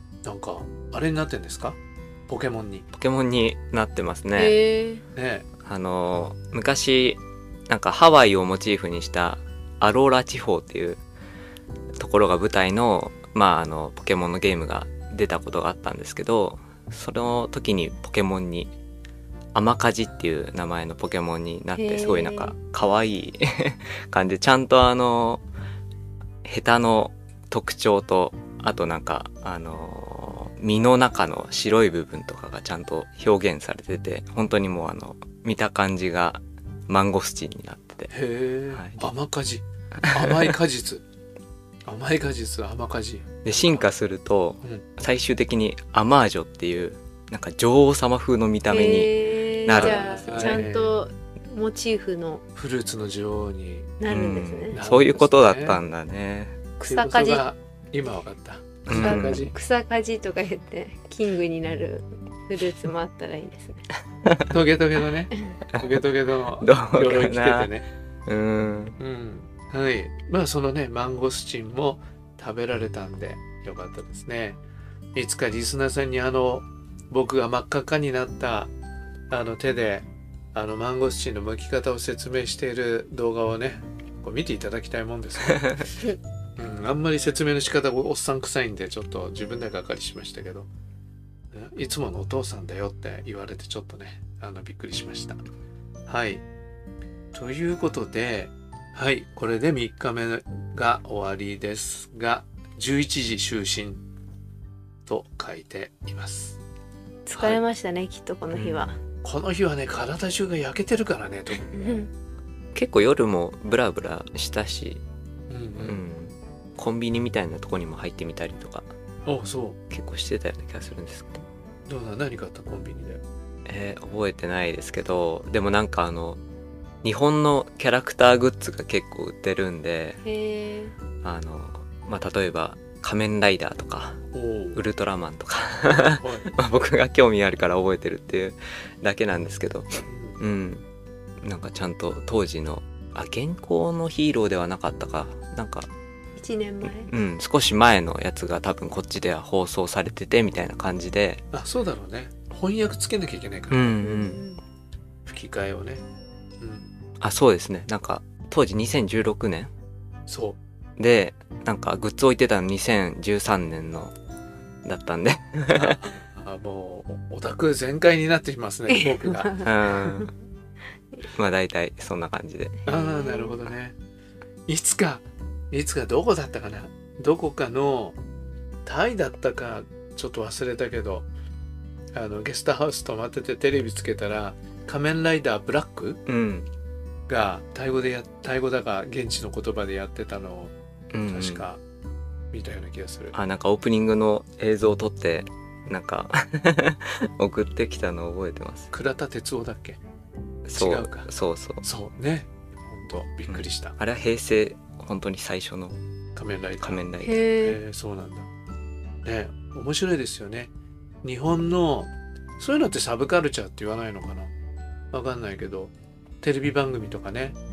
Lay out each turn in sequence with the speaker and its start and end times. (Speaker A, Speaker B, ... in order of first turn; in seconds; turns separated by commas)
Speaker A: 0.2-2.9, Speaker B: 2.9-4.6, Speaker C: 4.3-5.0, Speaker A: 5.1-5.5, Speaker B: 5.6-11.0, Speaker B: 12.0-18.7, Speaker B: 19.5-25.4, Speaker C: 21.7-22.5, Speaker B: 26.4-38.1, Speaker A: 38.1-41.0, Speaker B: 38.7-39.1, Speaker B: 40.0-40.5, Speaker A: 41.9-43.9, Speaker B: 43.4-50.6, Speaker C: 48.7-52.4, Speaker A: 49.7-50.9, Speaker A: 52.5-53.9, Speaker C: 54.0-54.8, Speaker B: 54.1-56.6, Speaker A: 54.7-55.8, Speaker C: 56.8-57.5, Speaker A: 56.9-59.5, Speaker B: 58.9-59.5, Speaker C: 58.9-63.8, Speaker A: 64.5-67.8, Speaker B: 66.6-67.7, Speaker B: 68.3-69.0, Speaker A: 69.0-74.6, Speaker A: 75.1-78.7, Speaker A: 79.3-85.8, Speaker A: 86.6-90.7, Speaker A: 91.5-95.4, Speaker A: 96.1-96.4, Speaker A: 97.3-104.0, Speaker A: 105.0-106.6, Speaker C: 107.2-109.0, Speaker A: 107.3-107.6, Speaker B: 108.5-108.9, Speaker A: 109.2-112.1, Speaker C: 111.8-112.1, Speaker B: 112.7-115.0, Speaker A: 115.5-116.0, Speaker B: 115.8-118.9, Speaker A: 119.2-119.8, Speaker B: 119.9-121.5, Speaker A: 121.9-123.2, Speaker B: 123.7-126.4, Speaker B: 127.0-130.2, Speaker C: 130.2-130.9, Speaker B: 131.2-134.2, Speaker A: 134.3-134.8, Speaker B: 134.7-140.8, Speaker A: 136.1-136.5, Speaker A: 140.0-140.4, Speaker B: 141.4-145.9, Speaker C: 146.3-147.1, Speaker B: 146.8-151.4, Speaker A: 151.5-153.9, Speaker B: 153.7-154.4, Speaker C: 154.0-154.6, Speaker A: 155.2-156.0, Speaker A: 156.6-156.9, Speaker B: 157.2-159.7, Speaker A: 160.3-160.6, Speaker B: 161.0-164.1, Speaker B: 164.8-166.0, Speaker A: 165.8-169.5, Speaker C: 168.9-169.7, Speaker B: 169.6-170.3, Speaker B: 171.2-172.7, Speaker C: 172.8-173.7, Speaker A: 172.8-173.9, Speaker A: 174.7-178.2, Speaker A: 178.8-181.3, Speaker A: 182.1-186.2, Speaker B: 186.2-186.7, Speaker A: 187.3-190.7, Speaker B: 191.1-191.7, Speaker A: 191.3-191.8, Speaker A: 192.5-193.3, Speaker B: 193.3-198.9, Speaker A: 198.9-200.0, Speaker B: 200.7-201.8, Speaker A: 200.8-201.3, Speaker A: 201.8-203.9, Speaker B: 203.5-206.0, Speaker A: 206.3-208.5, Speaker B: 206.8-207.4, Speaker C: 207.2-207.8, Speaker A: 209.2-210.7, Speaker A: 211.2-214.5, Speaker A: 215.1-217.6